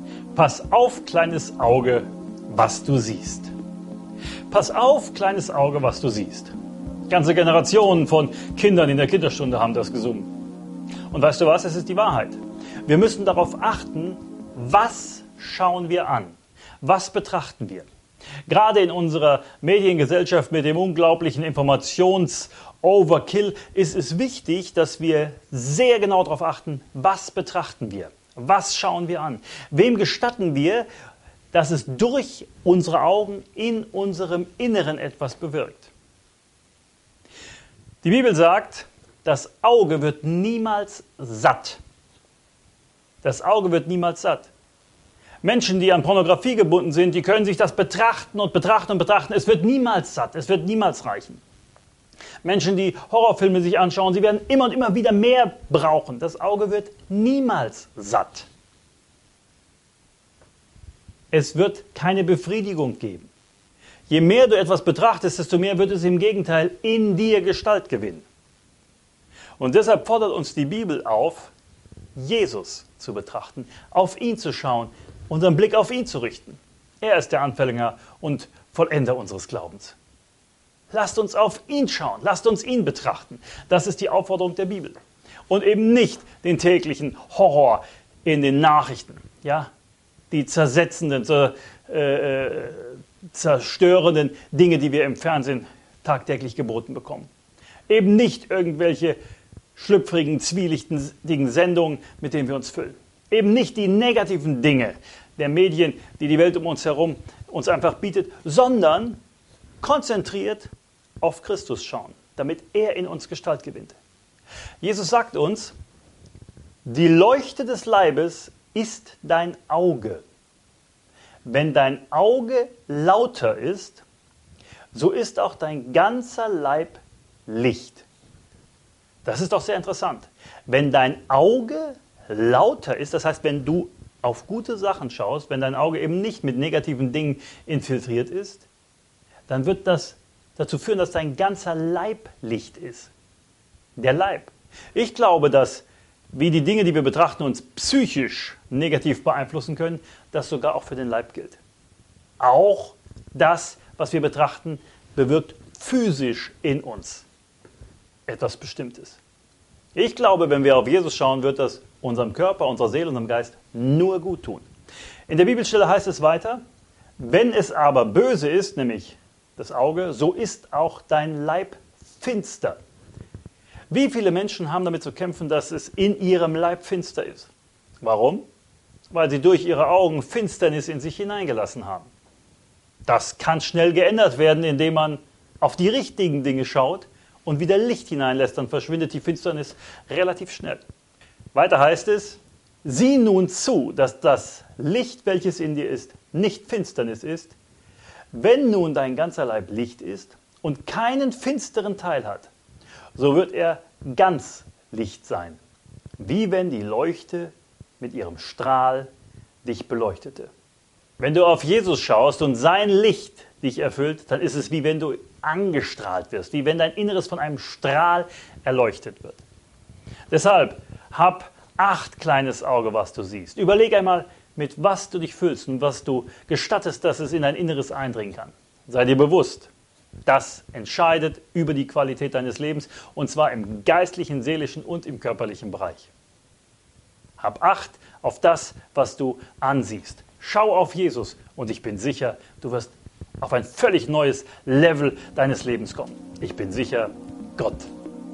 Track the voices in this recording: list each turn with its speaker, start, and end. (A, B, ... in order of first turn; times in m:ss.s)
0:00.3-0:03.5 A
0:04.5-0:06.5 A
0:07.1-0:10.3 A
0:11.1-0:17.9 A
0:18.5-0:30.9 A
0:31.5-0:35.9 A
0:38.0-0:41.8 A
0:43.2-0:44.5 A
0:45.4-0:51.4 A
0:52.4-0:58.5 A
1:01.3-1:03.3 A
1:04.1-1:08.3 A
1:09.6-1:11.5 A
1:12.2-1:20.0 A
1:20.9-1:25.0 A
1:25.5-1:29.7 A
1:30.3-1:37.3 A
1:37.9-1:39.2 A
1:39.8-1:49.2 A
1:49.8-1:50.7 A
1:51.2-1:54.0 A
1:54.8-1:55.8 A
1:56.8-2:00.2 A
2:01.4-2:04.0 A
2:04.9-2:08.1 A
2:09.2-2:18.7 A
2:19.5-2:23.1 A
2:24.0-2:31.6 A
2:32.4-2:37.3 A
2:38.3-2:39.2 A
2:39.9-2:44.7 A
2:45.3-2:46.6 A
2:47.2-2:52.8 A
2:53.9-2:58.4 A
2:59.1-3:02.1 A
3:03.1-3:10.8 A
3:11.5-3:17.6 A
3:18.3-3:22.5 A
3:23.2-3:25.6 A
3:26.2-3:29.1 A
3:29.6-3:30.5 A
3:31.2-3:39.4 A
3:40.3-3:49.7 A
3:50.3-3:56.1 A
3:57.4-4:07.9 A